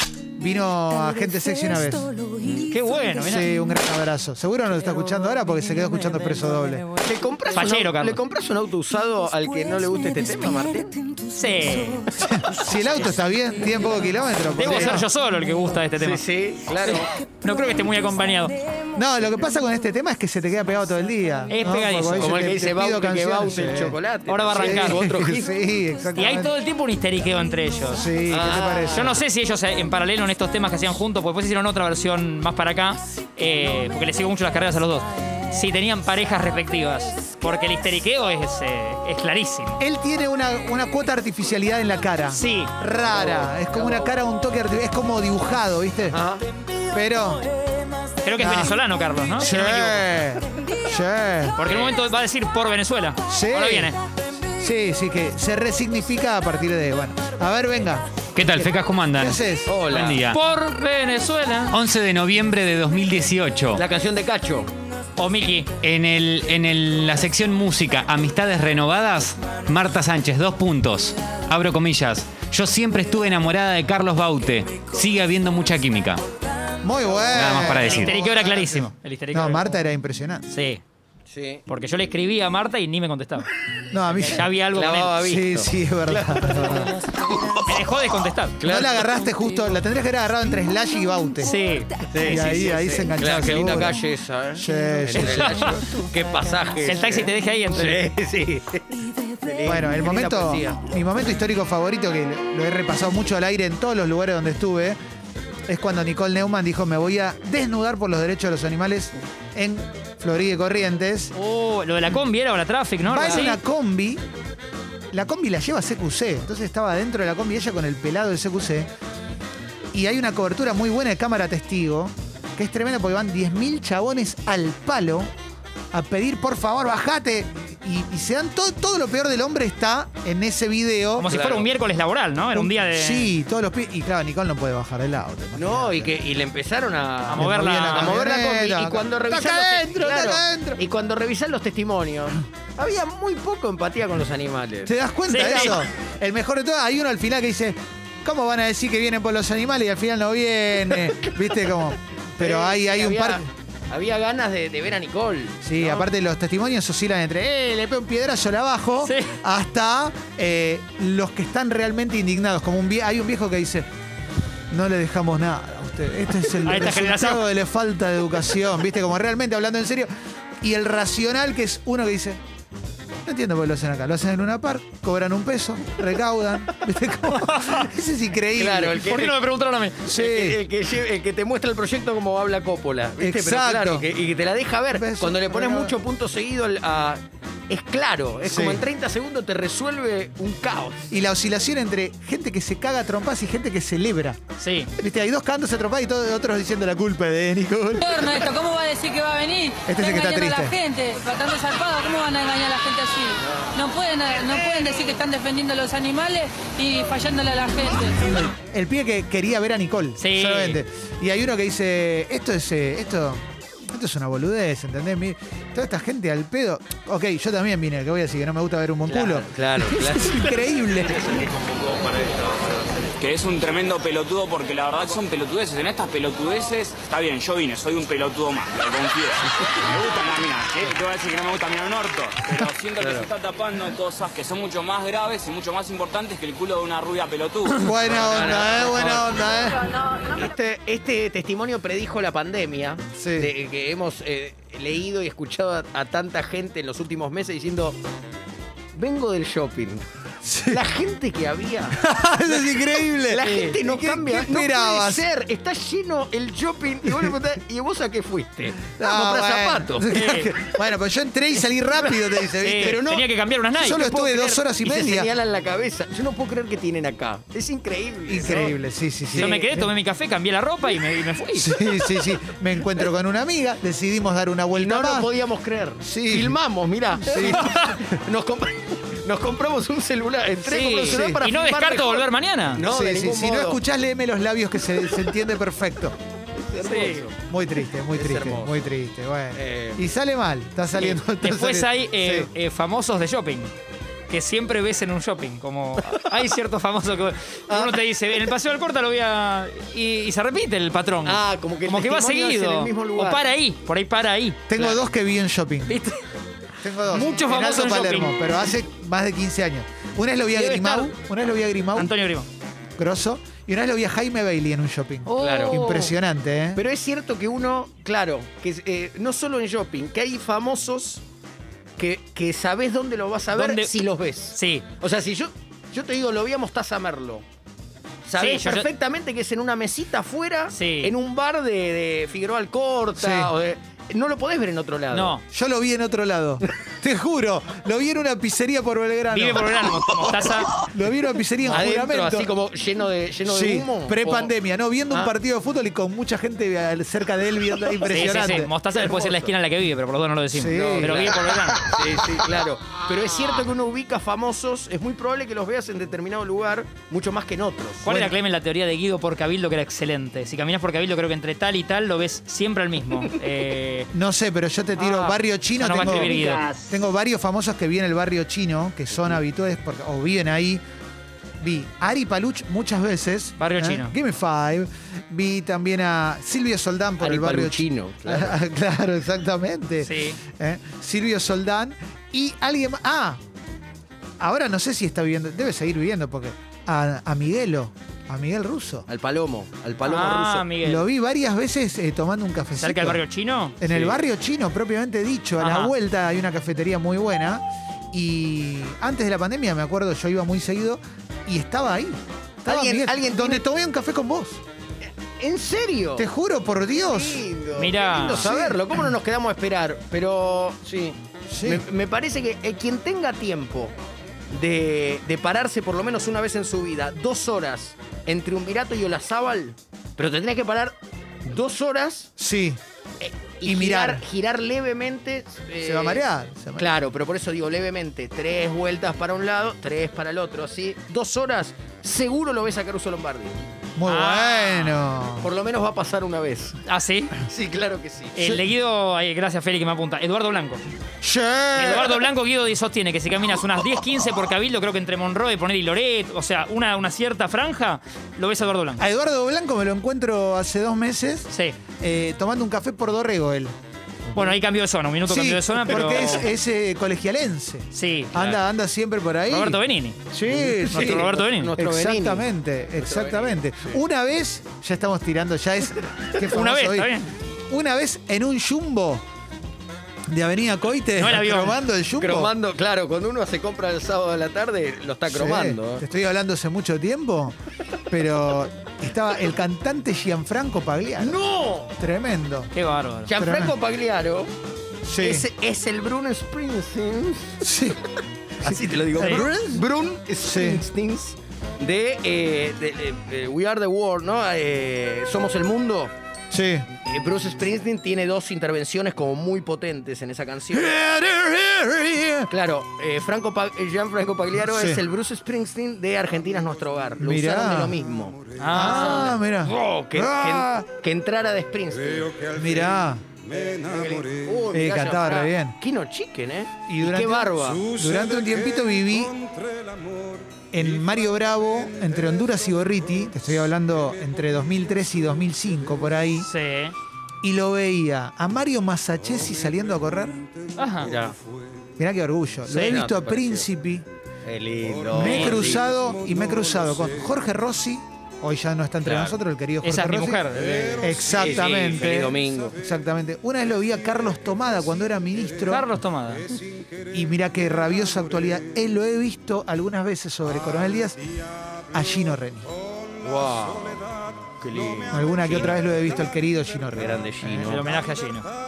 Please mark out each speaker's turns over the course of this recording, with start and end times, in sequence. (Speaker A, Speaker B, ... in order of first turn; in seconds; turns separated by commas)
Speaker A: 0.4-2.2, Speaker B: 2.5-3.5, Speaker A: 3.2-6.9, Speaker C: 7.0-11.1, Speaker B: 7.5-8.2, Speaker B: 11.3-12.1, Speaker A: 12.2-15.1, Speaker B: 14.6-16.2, Speaker C: 14.7-14.9, Speaker C: 16.0-17.1, Speaker B: 16.8-18.6, Speaker A: 18.9-24.0, Speaker B: 21.5-22.4, Speaker C: 22.2-25.4, Speaker B: 24.3-25.4, Speaker A: 24.5-26.5, Speaker B: 26.1-28.1, Speaker A: 27.9-29.2, Speaker C: 28.3-29.2, Speaker B: 28.9-39.8, Speaker A: 39.8-46.2, Speaker B: 42.3-42.7, Speaker C: 43.1-44.1, Speaker C: 46.1-46.4, Speaker A: 46.9-47.5, Speaker B: 48.2-50.0, Speaker A: 48.4-48.8, Speaker A: 49.4-51.6, Speaker B: 51.6-54.0, Speaker C: 51.7-52.0, Speaker A: 53.3-53.9, Speaker A: 54.5-58.1, Speaker D: 58.3-60.4, Speaker A: 59.2-59.8, Speaker C: 59.6-60.2, Speaker B: 60.2-61.7, Speaker D: 61.7-63.8, Speaker C: 63.7-64.7, Speaker B: 65.2-65.7, Speaker D: 65.8-76.2, Speaker A: 76.8-80.5, Speaker D: 77.3-78.2, Speaker B: 77.8-79.8, Speaker B: 80.5-80.8, Speaker C: 81.3-81.6, Speaker B: 81.7-83.5, Speaker A: 83.9-84.5, Speaker B: 84.1-85.2, Speaker C: 84.7-87.0, Speaker A: 85.2-87.0, Speaker B: 87.4-88.6, Speaker C: 88.6-89.2, Speaker A: 88.6-91.6, Speaker B: 91.4-92.5, Speaker C: 92.1-100.9, Speaker A: 92.2-94.0, Speaker A: 94.5-95.7, Speaker B: 95.2-95.8, Speaker B: 96.8-98.0, Speaker A: 99.6-105.0, Speaker A: 105.7-111.3, Speaker B: 111.3-113.6, Speaker A: 113.0-114.2, Speaker A: 115.1-118.9, Speaker A: 119.9-125.3, Speaker A: 125.9-131.3, Speaker B: 131.2-133.3, Speaker C: 131.2-131.7, Speaker A: 132.5-136.1, Speaker C: 135.6-145.7, Speaker B: 137.3-138.1, Speaker A: 137.3-140.8, Speaker A: 144.8-153.5, Speaker B: 145.3-145.8, Speaker C: 152.4-156.1, Speaker A: 155.6-163.9, Speaker B: 159.0-159.4, Speaker A: 164.7-170.1, Speaker B: 166.6-167.4, Speaker A: 170.6-172.4, Speaker A: 173.2-179.2, Speaker B: 177.4-177.8, Speaker C: 178.6-179.4, Speaker B: 179.0-180.1, Speaker A: 180.0-180.6, Speaker C: 180.1-191.2, Speaker A: 183.2-184.1, Speaker A: 184.9-185.9, Speaker A: 188.4-188.8, Speaker A: 191.1-194.4, Speaker B: 194.6-194.9, Speaker A: 195.0-198.4, Speaker E: 198.0-208.4, Speaker A: 199.9-200.7, Speaker C: 203.4-203.7, Speaker A: 208.3-221.4, Speaker B: 210.2-210.8, Speaker C: 219.1-220.5, Speaker F: 221.4-237.9, Speaker C: 233.0-233.3, Speaker A: 237.8-239.9, Speaker C: 237.9-248.0, Speaker A: 243.2-243.5, Speaker C: 248.9-250.0, Speaker A: 250.4-250.8, Speaker C: 250.7-252.1, Speaker A: 251.9-255.2, Speaker C: 252.8-260.1, Speaker B: 253.4-253.8, Speaker A: 258.9-263.1, Speaker B: 260.1-260.5, Speaker C: 262.1-263.3, Speaker B: 262.5-264.1, Speaker A: 263.7-265.3, Speaker C: 263.9-268.7, Speaker A: 268.3-269.9, Speaker C: 269.3-269.7, Speaker B: 269.4-271.8, Speaker A: 271.6-275.3, Speaker C: 274.7-283.8, Speaker A: 276.0-276.6, Speaker A: 277.1-277.9, Speaker B: 277.4-278.0, Speaker B: 280.6-282.8, Speaker A: 281.1-281.4, Speaker A: 282.9-286.1, Speaker C: 286.5-287.4, Speaker B: 286.8-287.3, Speaker A: 287.5-292.5, Speaker C: 288.1-288.8, Speaker C: 289.5-290.0, Speaker B: 290.9-293.7, Speaker B: 294.3-304.7, Speaker C: 297.7-298.5, Speaker C: 301.2-303.4, Speaker A: 304.7-306.0, Speaker B: 305.9-306.2, Speaker A: 306.8-312.1, Speaker B: 307.1-308.3, Speaker B: 310.5-311.1, Speaker B: 311.9-312.5, Speaker A: 313.0-316.8, Speaker B: 315.3-316.1, Speaker C: 315.4-316.1, Speaker C: 316.7-321.2, Speaker C: 322.0-327.4, Speaker B: 323.5-323.9, Speaker B: 324.5-324.9, Speaker C: 328.2-335.4, Speaker B: 328.4-328.9, Speaker B: 330.7-331.1, Speaker A: 333.2-333.5, Speaker B: 335.1-335.4, Speaker A: 335.5-339.9, Speaker B: 339.3-340.8, Speaker A: 340.7-342.5, Speaker C: 341.7-344.5, Speaker A: 343.4-348.7, Speaker B: 348.0-352.0, Speaker C: 348.9-349.5, Speaker A: 350.5-351.4, Speaker C: 350.7-358.3, Speaker B: 358.0-364.1, Speaker A: 364.1-370.8, Speaker B: 365.0-366.7, Speaker C: 366.0-366.7, Speaker A: 371.6-383.4, Speaker B: 373.6-374.1, Speaker C: 377.2-378.6, Speaker B: 380.0-380.4, Speaker A: 384.4-389.1, Speaker C: 389.1-390.7, Speaker B: 390.0-391.0, Speaker A: 390.8-393.2, Speaker B: 392.8-393.8, Speaker A: 393.8-404.6, Speaker C: 393.9-394.2, Speaker B: 395.6-395.9, Speaker C: 402.6-403.6, Speaker C: 405.0-406.3, Speaker A: 406.1-407.5, Speaker C: 407.0-413.9, Speaker B: 407.8-408.5, Speaker A: 408.4-409.1, Speaker A: 411.5-411.8, Speaker C: 414.5-422.3, Speaker A: 422.4-422.8, Speaker C: 423.2-426.2, Speaker A: 423.6-424.2, Speaker A: 425.8-426.9, Speaker C: 426.8-433.5, Speaker A: 434.0-435.5, Speaker B: 434.1-435.0, Speaker C: 435.4-436.8, Speaker B: 436.8-437.4, Speaker C: 437.5-438.4, Speaker B: 438.4-440.8, Speaker A: 441.2-442.2, Speaker B: 441.7-449.0, Speaker A: 449.0-453.7, Speaker B: 451.5-451.8, Speaker B: 454.3-456.4, Speaker A: 455.3-469.2, Speaker B: 457.9-458.4, Speaker B: 459.5-460.2, Speaker C: 460.5-464.0, Speaker B: 460.8-461.7, Speaker B: 466.5-467.3, Speaker A: 470.3-472.5, Speaker B: 471.2-471.8, Speaker C: 472.2-476.0, Speaker A: 475.3-477.6, Speaker A: 478.1-481.4, Speaker C: 481.2-481.9, Speaker A: 482.0-482.7, Speaker B: 482.7-483.3, Speaker C: 483.3-484.5, Speaker A: 483.4-483.8, Speaker A: 485.0-485.4, Speaker C: 485.2-487.6, Speaker A: 487.6-488.0, Speaker C: 488.6-496.1, Speaker A: 488.6-489.8, Speaker B: 489.2-489.4, Speaker A: 490.4-490.8, Speaker A: 496.5-496.9, Speaker C: 497.0-500.9, Speaker A: 500.7-502.5, Speaker C: 502.5-512.5, Speaker A: 504.6-505.0, Speaker A: 507.2-507.9, Speaker B: 508.6-509.3, Speaker A: 508.7-510.9, Speaker A: 512.5-513.2, Speaker C: 513.5-518.0, Speaker A: 514.7-515.7, Speaker A: 516.9-519.4, Speaker A: 520.7-526.5, Speaker B: 526.4-526.9, Speaker A: 527.4-530.4, Speaker B: 530.8-531.1, Speaker C: 531.0-531.3, Speaker A: 532.0-534.0, Speaker B: 532.7-533.0, Speaker C: 532.8-533.7, Speaker C: 534.4-536.0, Speaker A: 535.1-540.4, Speaker B: 535.3-535.6, Speaker C: 539.0-539.4, Speaker B: 539.8-541.2, Speaker A: 541.0-545.9, Speaker C: 541.3-542.8, Speaker B: 545.7-546.5, Speaker A: 547.1-551.2, Speaker A: 551.9-552.7, Speaker C: 553.2-554.0, Speaker C: 554.6-555.8, Speaker A: 555.1-557.8, Speaker C: 556.9-557.9, Speaker B: 557.6-558.5